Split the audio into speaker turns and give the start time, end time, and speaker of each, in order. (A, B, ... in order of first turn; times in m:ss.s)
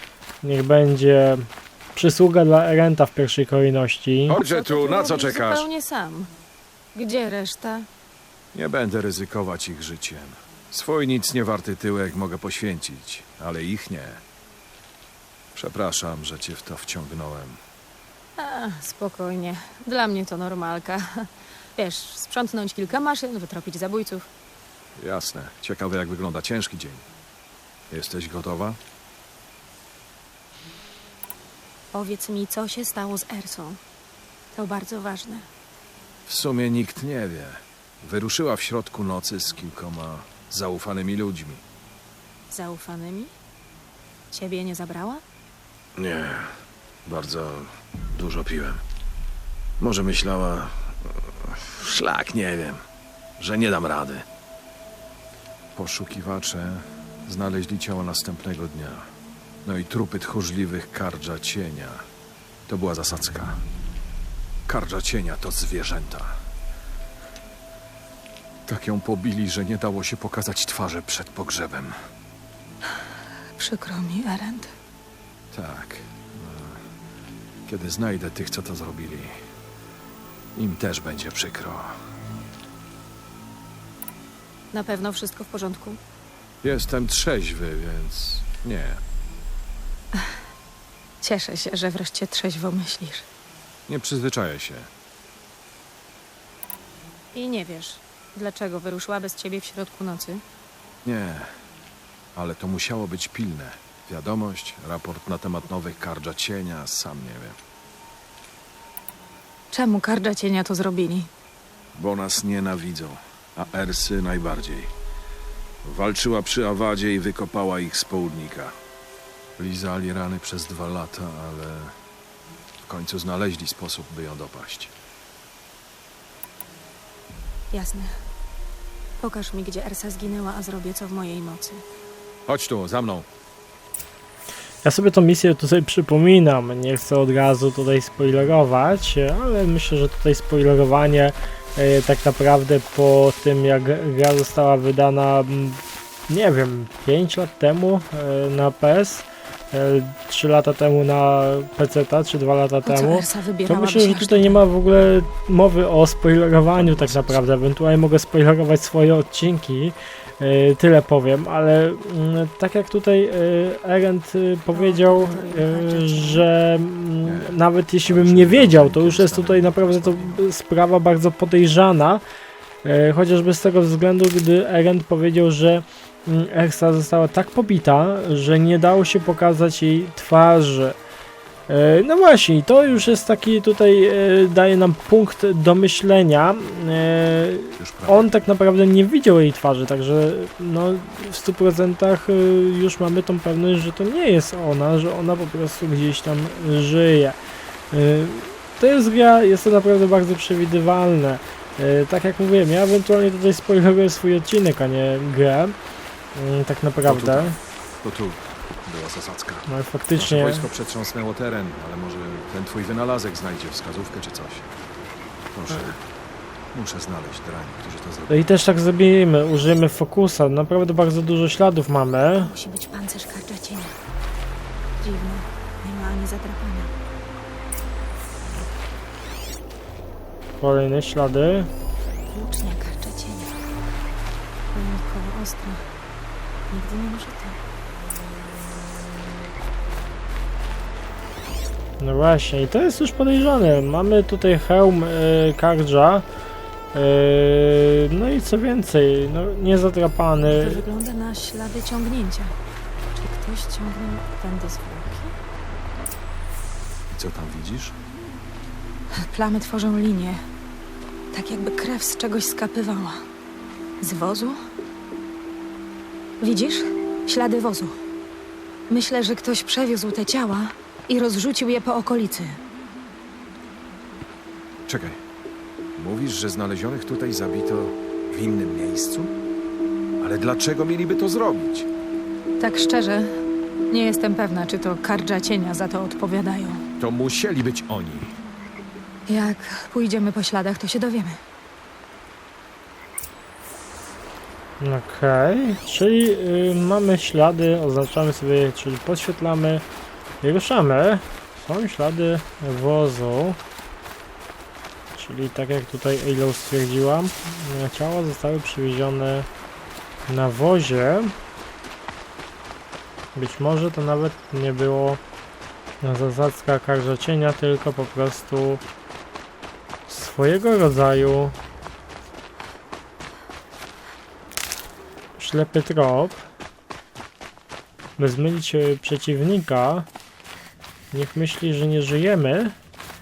0:00.4-0:04.4 A
0:04.3-0:05.7 B
0:04.3-0:06.3 C
0:06.9-0:07.9 C
0:08.5-0:14.2 B
0:15.5-0:17.6 B
0:18.4-0:24.2 C
0:25.0-0:27.0 B
0:27.9-0:28.8 B
0:31.9-0:33.8 C
0:34.5-0:35.5 C
0:36.3-0:41.6 B
0:42.5-0:43.3 C
0:44.3-0:45.2 C
0:46.0-0:48.8 B
0:49.8-0:52.8 B
0:53.4-0:54.2 B
0:55.7-0:59.1 B
0:59.6-1:02.0 B
1:02.7-1:03.6 B
1:04.7-1:06.4 B
1:08.7-1:11.9 B
1:13.6-1:14.7 C
1:15.5-1:16.8 B
1:17.7-1:19.3 B
1:20.5-1:22.0 B
1:24.7-1:26.0 C
1:26.6-1:29.0 B
1:31.2-1:33.2 C
1:33.9-1:34.9 B
1:37.3-1:40.4 C
1:41.0-1:41.5 B
1:42.3-1:47.6 B
1:49.7-1:51.3 C
1:51.9-1:54.9 B
1:55.8-1:58.7 B
1:59.6-2:02.0 B
2:02.8-2:04.9 B
2:07.7-2:08.1 C
2:09.2-2:11.8 C
2:12.5-2:13.3 B
2:14.8-2:52.2 A
2:32.8-2:34.6 C
2:36.7-2:37.4 B
2:44.7-2:46.5 C
2:47.2-2:50.4 B
2:52.8-3:01.0 A
3:01.7-3:17.4 A
3:07.8-3:08.3 B
3:17.9-3:25.7 A
3:26.3-3:27.6 A
3:27.0-3:34.7 B
3:29.7-3:30.7 A
3:35.5-3:36.0 B
3:36.7-3:38.4 B
3:38.3-3:42.5 A
3:42.4-3:44.0 C
3:45.0-3:46.9 C
3:50.6-3:51.7 A
3:52.3-3:53.6 C
3:54.7-3:55.8 C
3:56.7-3:57.6 C
4:02.0-4:06.2 A
4:06.9-4:10.8 A
4:10.5-4:12.5 C
4:13.1-4:15.3 C
4:17.1-4:17.9 B
4:19.1-4:20.4 C
4:21.3-4:23.2 C
4:24.0-4:24.6 C
4:26.4-4:27.9 C
4:28.9-4:32.6 C
4:34.8-4:35.2 B
4:36.0-4:39.3 B
4:40.2-4:41.9 B
4:42.6-4:43.3 C
4:43.9-4:46.8 C
4:47.0-4:48.4 B
4:49.3-4:51.4 C
4:54.8-4:59.8 A
5:00.4-5:03.6 A
5:05.1-5:09.5 A
5:10.3-5:11.3 A
5:13.3-5:15.2 A
5:16.0-5:18.8 A
5:20.1-5:21.5 A
5:25.4-5:26.4 A
5:28.2-5:30.1 A
5:31.1-5:32.8 A